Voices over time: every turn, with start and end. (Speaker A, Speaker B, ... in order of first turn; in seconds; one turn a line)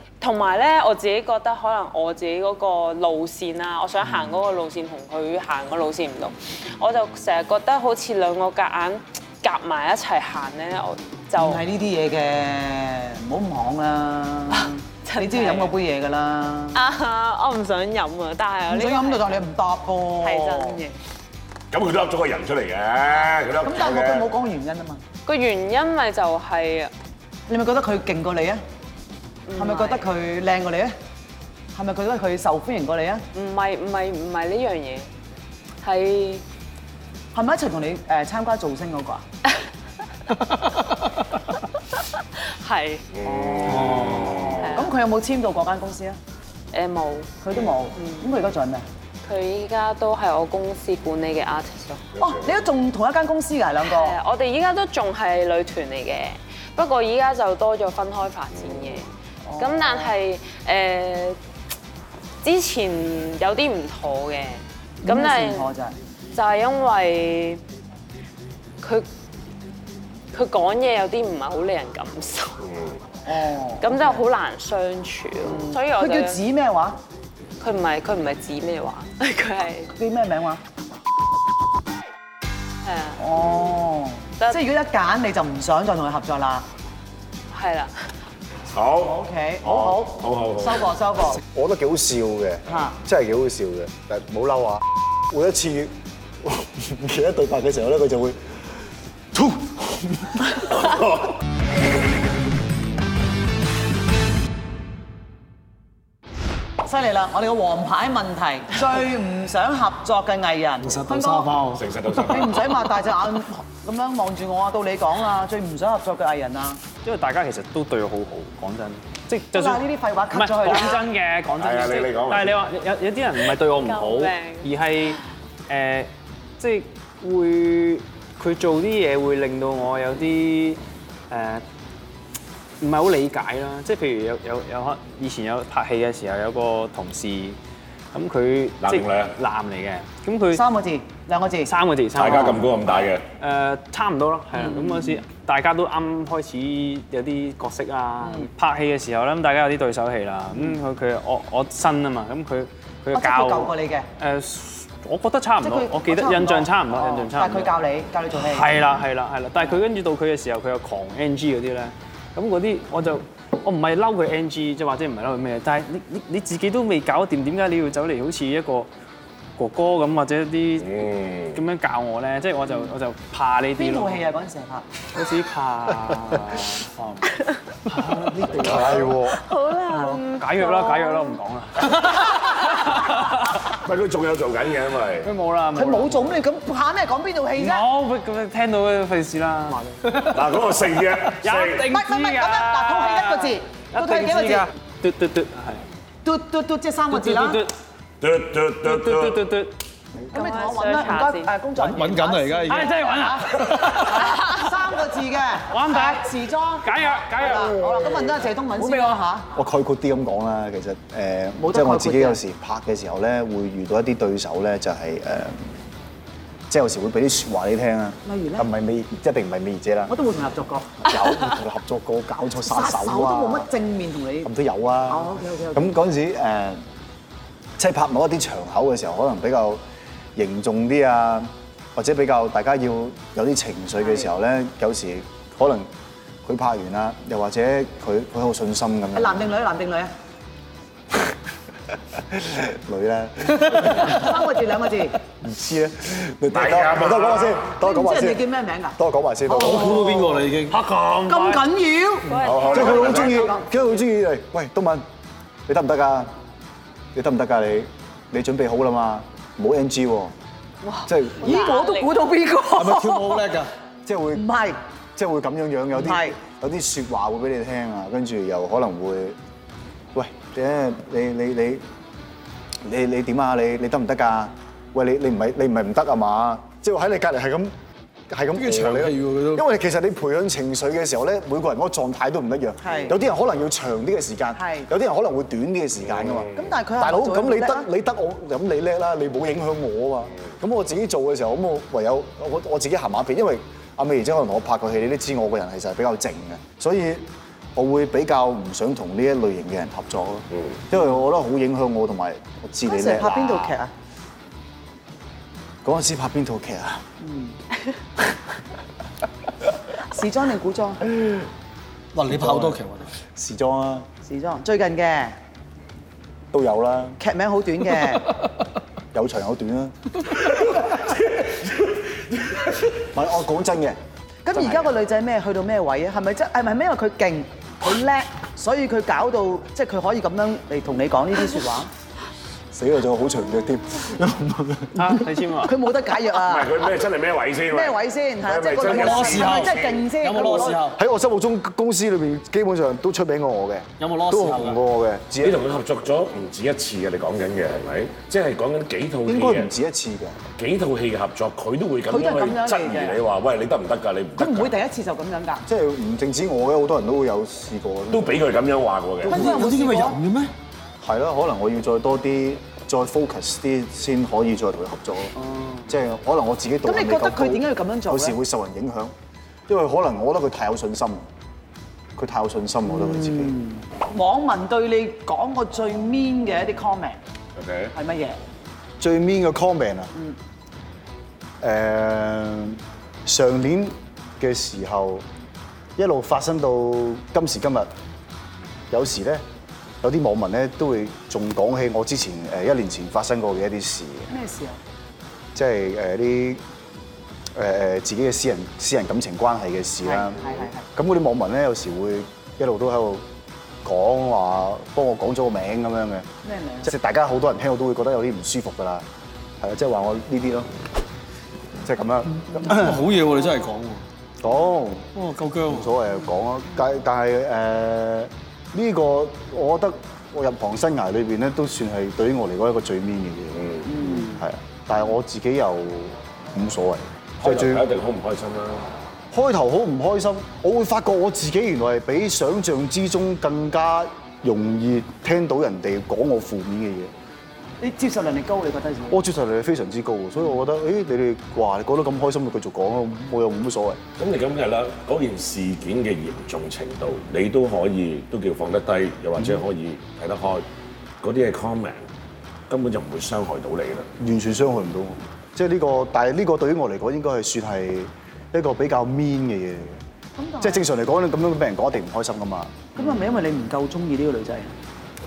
Speaker A: 0.2-11.6
Speaker B: 11.4-16.8
Speaker A: 14.5-15.7
Speaker A: 16.7-19.4
Speaker B: 18.7-20.8
Speaker A: 20.2-21.0
Speaker C: 21.7-24.3
Speaker B: 23.6-25.0
Speaker A: 25.2-26.9
Speaker B: 27.5-28.6
Speaker A: 29.4-30.1
Speaker B: 29.6-30.9
Speaker B: 31.7-33.2
Speaker A: 33.3-35.1
Speaker A: 35.8-36.4
Speaker B: 37.3-39.2
Speaker A: 42.3-43.1
Speaker C: 43.1-44.7
Speaker B: 43.2-46.2
Speaker D: 43.6-44.6
Speaker A: 44.6-44.9
Speaker A: 46.7-47.4
Speaker B: 47.4-48.9
Speaker A: 47.9-48.3
Speaker A: 49.2-52.0
Speaker C: 52.1-52.6
Speaker B: 52.2-54.1
Speaker A: 53.8-61.4
Speaker C: 58.5-59.0
Speaker B: 59.4-60.1
Speaker A: 62.4-65.7
Speaker B: 65.0-65.9
Speaker A: 66.3-67.6
Speaker A: 68.8-69.1
Speaker A: 70.3-72.6
Speaker C: 72.6-73.0
Speaker B: 73.2-74.2
Speaker A: 73.8-76.4
Speaker B: 75.4-77.0
Speaker A: 77.6-79.9
Speaker B: 79.9-80.6
Speaker A: 82.8-83.2
Speaker B: 83.2-86.7
Speaker C: 83.4-83.7
Speaker A: 87.5-88.1
Speaker C: 88.7-90.9
Speaker B: 89.0-91.4
Speaker E: 91.3-98.5
Speaker B: 92.7-93.0
Speaker E: 99.3-101.0
Speaker B: 106.8-111.5
Speaker D: 110.8-112.5
Speaker C: 111.7-112.8
Speaker B: 112.2-116.8
Speaker F: 117.0-131.6
Speaker B: 119.5-121.0
Speaker C: 121.6-122.6
Speaker A: 123.8-124.7
Speaker F: 132.8-137.6
Speaker F: 138.1-140.6
Speaker C: 138.8-139.3
Speaker B: 140.5-141.7
Speaker F: 141.7-157.8
Speaker C: 142.1-143.2
Speaker B: 144.6-145.2
Speaker B: 148.2-148.5
Speaker B: 153.1-154.1
Speaker B: 155.6-158.8
Speaker F: 158.4-168.9
Speaker F: 169.6-174.2
Speaker C: 170.8-171.6
Speaker B: 173.8-174.9
Speaker F: 175.1-176.9
Speaker D: 177.0-177.2
Speaker F: 177.8-179.2
Speaker E: 178.6-179.4
Speaker A: 179.3-181.4
Speaker F: 179.8-183.6
Speaker A: 181.9-183.0
Speaker C: 183.7-185.3
Speaker F: 185.2-186.4
Speaker B: 185.7-187.8
Speaker F: 187.6-190.4
Speaker C: 190.2-191.8
Speaker F: 191.4-195.8
Speaker B: 191.8-194.7
Speaker B: 196.2-197.6
Speaker F: 197.1-197.7
Speaker C: 198.2-199.4
Speaker F: 198.8-199.8
Speaker B: 200.2-209.5
Speaker A: 200.3-201.5
Speaker D: 201.7-202.9
Speaker F: 202.7-204.6
Speaker D: 203.4-204.3
Speaker F: 205.7-206.3
Speaker F: 206.8-207.9
Speaker E: 209.5-215.6
Speaker B: 211.6-212.4
Speaker E: 216.7-220.1
Speaker B: 218.2-218.7
Speaker B: 220.1-221.1
Speaker E: 221.0-223.7
Speaker B: 222.6-224.5
Speaker E: 224.4-226.8
Speaker B: 225.1-225.9
Speaker E: 227.8-229.8
Speaker E: 230.3-235.9
Speaker B: 234.0-234.3
Speaker E: 236.4-239.5
Speaker B: 239.1-240.1
Speaker E: 242.1-244.3
Speaker B: 243.8-245.2
Speaker E: 245.4-248.4
Speaker C: 246.5-247.7
Speaker B: 247.8-250.4
Speaker E: 248.9-250.2
Speaker D: 249.5-250.8
Speaker F: 250.7-251.6
Speaker B: 251.2-253.6
Speaker A: 252.2-253.6
Speaker C: 252.4-253.5
Speaker E: 252.7-255.0
Speaker E: 255.7-256.3
Speaker E: 257.1-260.3
Speaker A: 260.9-262.1
Speaker E: 261.1-261.6
Speaker B: 261.4-263.5
Speaker D: 262.7-263.7
Speaker E: 264.0-264.6
Speaker B: 264.3-264.8
Speaker E: 265.1-269.4
Speaker B: 265.9-266.3
Speaker E: 270.1-271.8
Speaker E: 272.8-277.7
Speaker E: 278.3-303.8
Speaker D: 278.7-279.6
Speaker B: 282.8-283.1
Speaker B: 284.5-284.9
Speaker B: 286.5-287.9
Speaker B: 302.9-303.9
Speaker E: 305.8-307.0
Speaker B: 307.2-307.6
Speaker B: 310.0-311.0
Speaker D: 312.1-313.1
Speaker E: 312.3-312.8
Speaker E: 313.3-314.1
Speaker B: 314.2-315.4
Speaker E: 316.5-317.2
Speaker B: 317.2-318.3
Speaker E: 319.1-319.9
Speaker E: 323.0-324.0
Speaker B: 324.4-331.9
Speaker E: 324.5-324.9
Speaker E: 332.7-335.2
Speaker F: 334.9-335.7
Speaker B: 335.6-336.9
Speaker C: 336.3-340.1
Speaker B: 337.7-340.9
Speaker D: 338.8-341.0
Speaker E: 340.9-345.6
Speaker D: 344.0-344.8
Speaker C: 345.4-349.7
Speaker E: 349.2-350.4
Speaker C: 350.6-354.7
Speaker B: 352.1-353.2
Speaker B: 354.4-355.6
Speaker E: 355.6-358.4
Speaker C: 358.1-359.5
Speaker B: 359.2-360.2
Speaker D: 359.2-360.5
Speaker E: 361.0-365.3
Speaker B: 365.4-365.9
Speaker E: 365.9-369.1
Speaker B: 366.9-368.4
Speaker E: 369.7-371.3
Speaker E: 372.1-373.6
Speaker B: 372.9-377.2
Speaker C: 377.6-377.9
Speaker B: 377.9-378.4
Speaker E: 379.0-380.1
Speaker E: 381.6-385.2
Speaker E: 386.0-387.9
Speaker E: 388.9-389.4
Speaker E: 390.0-394.3
Speaker B: 394.3-394.8
Speaker E: 395.5-396.6
Speaker E: 397.5-403.2
Speaker B: 400.0-400.8
Speaker E: 403.8-406.3
Speaker B: 406.4-406.9
Speaker E: 406.8-409.1
Speaker E: 409.6-410.7
Speaker E: 411.8-413.1
Speaker D: 412.5-414.0
Speaker E: 414.4-415.1
Speaker D: 415.1-415.9
Speaker E: 415.6-427.8
Speaker C: 423.5-423.9
Speaker B: 423.9-424.4
Speaker C: 427.4-428.9
Speaker E: 429.3-437.1
Speaker B: 437.8-439.2
Speaker E: 439.1-444.0
Speaker C: 444.2-450.6
Speaker C: 451.2-452.1
Speaker C: 452.7-454.1
Speaker E: 454.2-460.0
Speaker B: 460.4-460.9
Speaker E: 460.6-463.0
Speaker B: 462.9-464.7